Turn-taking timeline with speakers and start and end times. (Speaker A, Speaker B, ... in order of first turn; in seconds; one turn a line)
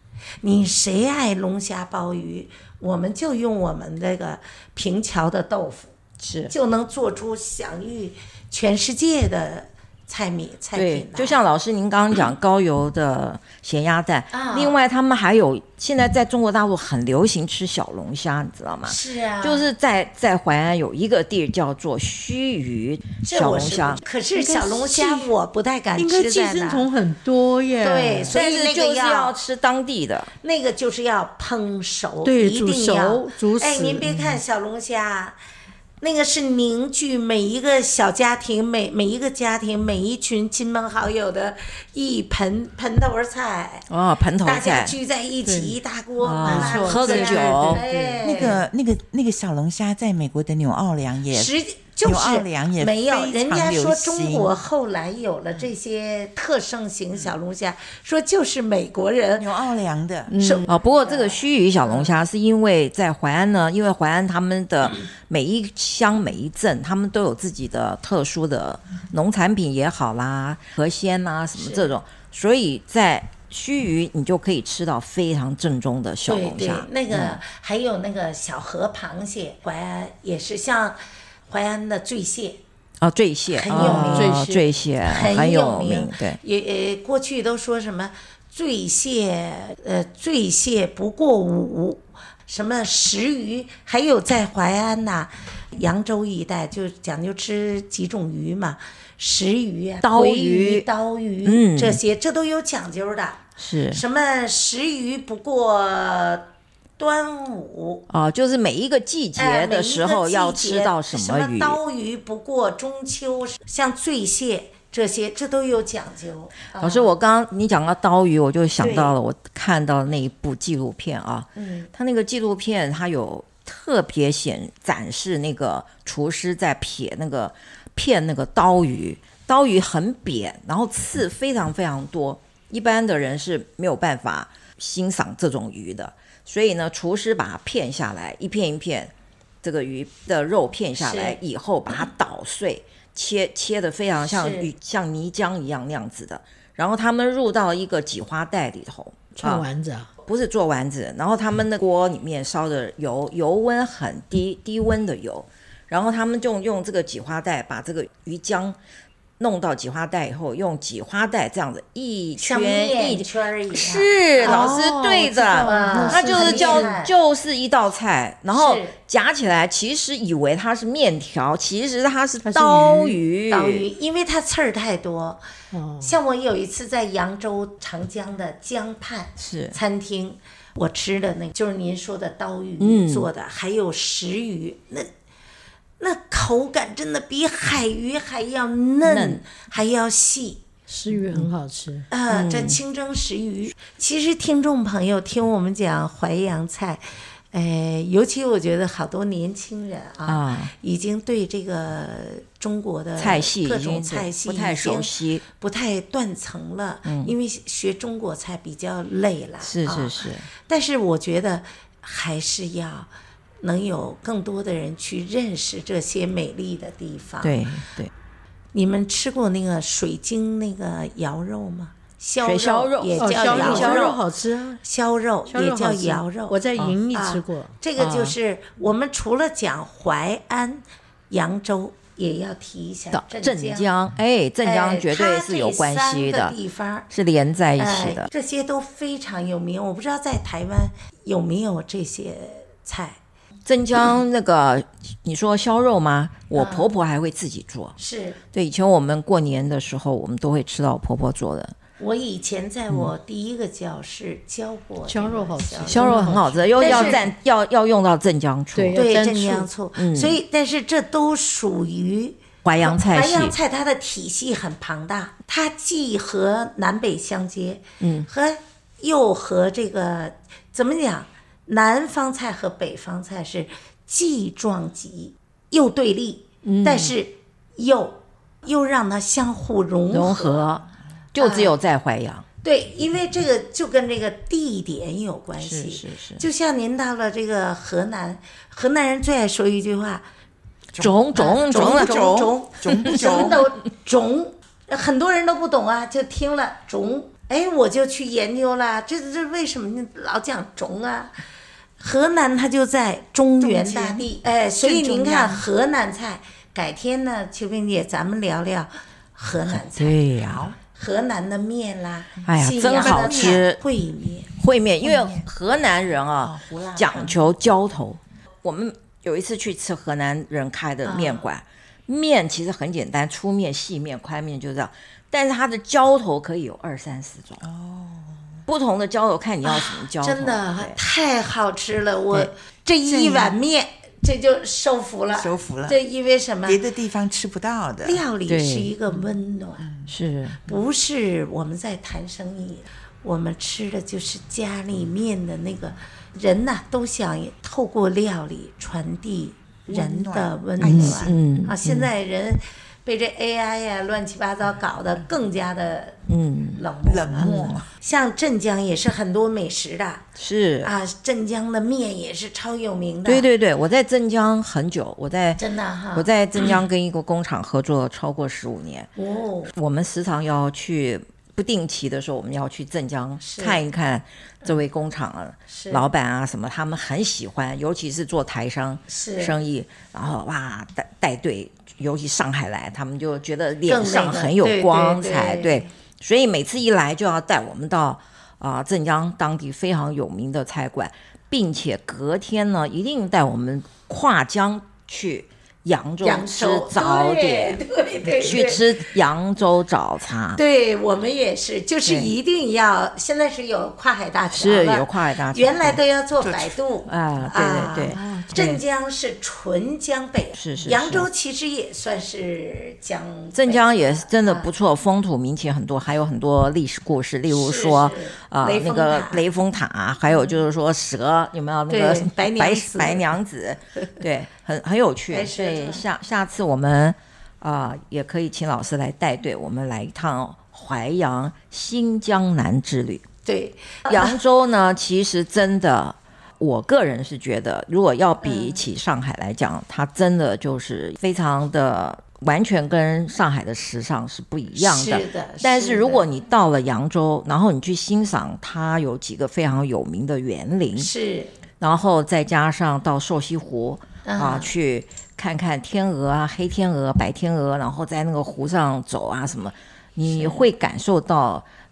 Speaker A: 0.4-5.9
Speaker B: 6.2-6.5
Speaker A: 6.5-11.4
Speaker B: 10.7-24.0
Speaker A: 14.3-14.8
Speaker A: 18.8-19.7
Speaker A: 23.2-26.9
Speaker C: 24.3-25.3
Speaker C: 25.9-28.4
Speaker A: 27.8-29.4
Speaker B: 28.3-30.3
Speaker A: 30.4-35.4
Speaker C: 32.2-34.1
Speaker A: 36.0-43.9
Speaker B: 43.9-44.9
Speaker A: 44.4-48.6
Speaker C: 45.4-45.8
Speaker B: 46.2-47.8
Speaker C: 46.4-48.5
Speaker D: 48.2-54.5
Speaker A: 51.3-59.5
Speaker D: 59.4-60.3
Speaker B: 60.3-77.4
Speaker A: 60.3-62.1
Speaker A: 71.5-71.9
Speaker A: 76.3-82.6
Speaker B: 83.0-86.4
Speaker A: 83.5-84.4
Speaker C: 83.7-84.6
Speaker A: 85.0-108.0
Speaker B: 100.0-100.8
Speaker B: 101.4-102.0
Speaker B: 103.6-104.0
Speaker B: 108.1-111.8
Speaker A: 109.4-117.1
Speaker B: 116.8-139.1
Speaker A: 118.8-119.1
Speaker A: 121.5-121.9
Speaker B: 139.6-149.7
Speaker A: 141.0-141.4
Speaker A: 144.3-144.7
Speaker C: 149.3-150.1
Speaker B: 150.2-158.8
Speaker B: 159.4-173.8
Speaker A: 162.4-167.1
Speaker C: 164.4-166.9
Speaker A: 168.5-168.9
Speaker C: 172.4-173.2
Speaker A: 173.5-175.4
Speaker C: 175.7-176.2
Speaker A: 176.0-185.1
Speaker B: 179.4-179.8
Speaker B: 182.8-183.3
Speaker A: 186.0-190.6
Speaker B: 189.0-189.4
Speaker C: 190.9-192.1
Speaker B: 191.1-191.5
Speaker A: 192.1-213.1
Speaker B: 192.3-192.8
Speaker B: 200.3-200.7
Speaker B: 203.2-205.4
Speaker B: 207.1-207.3
Speaker B: 209.6-210.5
Speaker A: 213.6-217.7
Speaker B: 217.4-218.1
Speaker A: 218.7-224.2
Speaker B: 222.4-224.1
Speaker C: 223.2-224.8
Speaker A: 224.8-226.6
Speaker C: 225.5-227.8
Speaker A: 227.1-233.9
Speaker B: 228.0-228.3
Speaker B: 233.1-236.6
Speaker A: 234.6-237.1
Speaker B: 237.1-238.3
Speaker A: 237.8-243.2
Speaker B: 243.7-248.0
Speaker A: 246.5-246.9
Speaker A: 248.0-248.4
Speaker B: 248.5-251.8
Speaker A: 252.0-257.3
Speaker C: 255.1-257.3
Speaker B: 255.9-260.4
Speaker C: 258.7-259.4
Speaker A: 258.9-280.6
Speaker B: 262.6-263.5
Speaker B: 268.0-268.3
Speaker B: 276.6-277.1
Speaker B: 280.1-282.4
Speaker A: 281.4-281.7
Speaker A: 282.6-290.2
Speaker B: 285.6-286.4
Speaker D: 290.9-293.7
Speaker B: 291.0-292.3
Speaker A: 291.3-301.3
Speaker B: 293.0-293.6
Speaker A: 302.0-310.2
Speaker D: 303.6-305.6
Speaker B: 309.7-310.7
Speaker A: 310.8-314.5
Speaker D: 312.4-313.6
Speaker B: 312.4-313.8
Speaker B: 314.6-327.6
Speaker D: 315.0-315.5
Speaker D: 316.4-317.5
Speaker A: 321.0-321.5
Speaker D: 327.6-328.6
Speaker B: 328.7-331.0
Speaker A: 329.6-336.8
Speaker D: 333.1-333.6
Speaker D: 335.3-336.0
Speaker D: 336.6-338.2
Speaker A: 338.0-339.8
Speaker B: 338.5-338.9
Speaker D: 339.8-340.1
Speaker B: 340.1-340.6
Speaker A: 340.6-356.2
Speaker D: 349.9-351.4
Speaker B: 350.8-352.1
Speaker B: 356.3-356.8
Speaker A: 356.7-360.3
Speaker D: 357.0-357.9
Speaker B: 357.4-357.8
Speaker B: 360.4-360.9
Speaker A: 360.8-363.5
Speaker B: 363.2-365.6
Speaker A: 365.6-366.3
Speaker B: 366.1-369.1
Speaker A: 369.2-369.7
Speaker B: 369.7-400.6
Speaker A: 373.4-373.8
Speaker A: 375.7-376.1
Speaker A: 379.1-379.5
Speaker A: 383.9-385.9
Speaker A: 396.2-398.9
Speaker A: 400.6-414.7
Speaker B: 402.1-402.3
Speaker B: 404.5-406.0
Speaker D: 406.4-406.8
Speaker B: 407.1-408.8
Speaker C: 408.1-408.5
Speaker B: 410.5-411.3
Speaker B: 413.5-433.2
Speaker A: 417.5-419.4
Speaker A: 420.3-420.6
Speaker A: 421.9-423.3
Speaker A: 425.3-426.0
Speaker A: 433.4-434.4
Speaker B: 434.1-451.1
Speaker A: 438.4-438.8
Speaker A: 444.8-446.3
Speaker A: 450.9-451.5
Speaker B: 451.8-461.6
Speaker A: 454.2-454.7
Speaker A: 460.2-460.6